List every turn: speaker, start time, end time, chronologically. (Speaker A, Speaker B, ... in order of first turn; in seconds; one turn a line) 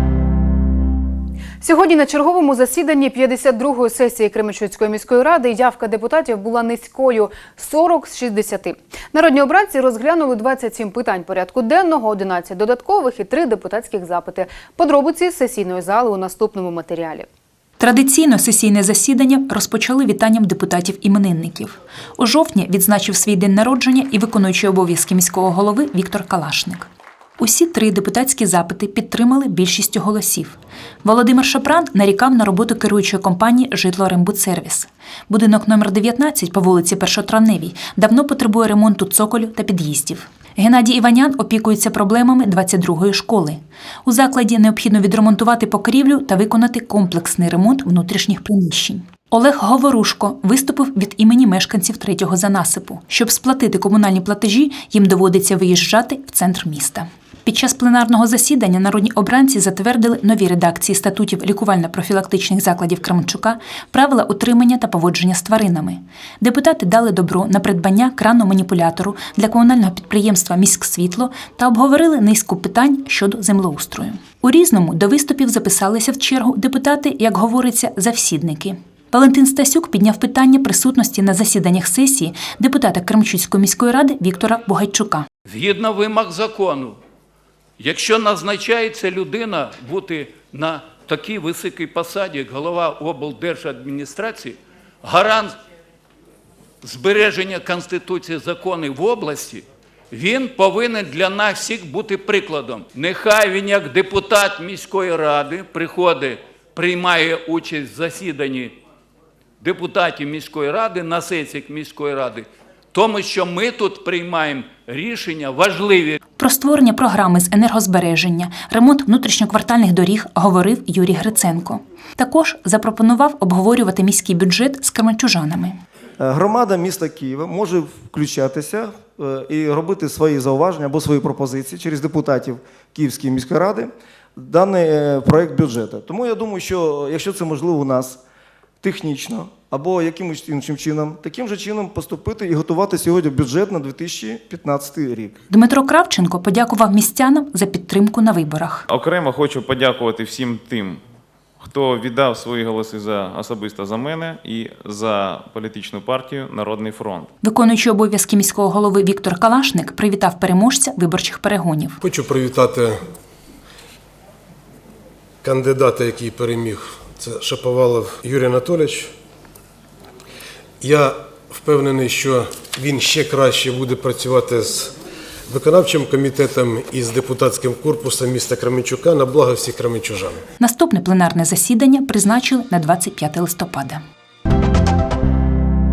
Speaker A: 1.6-17.3
Speaker B: 17.8-85.3
Speaker C: 85.5-87.0
Speaker C: 87.8-95.6
Speaker C: 96.8-108.8
Speaker C: 109.6-116.2
Speaker B: 116.4-125.8
Speaker D: 126.2-138.2
Speaker D: 138.8-145.4
Speaker B: 145.5-148.8
Speaker E: 148.9-151.0
Speaker E: 151.7-155.8
Speaker E: 156.3-157.2
Speaker B: 157.4-162.0
Speaker F: 162.0-163.0
Speaker F: 165.4-169.1
Speaker F: 170.8-174.9
Speaker F: 175.5-180.4
Speaker B: 180.6-184.0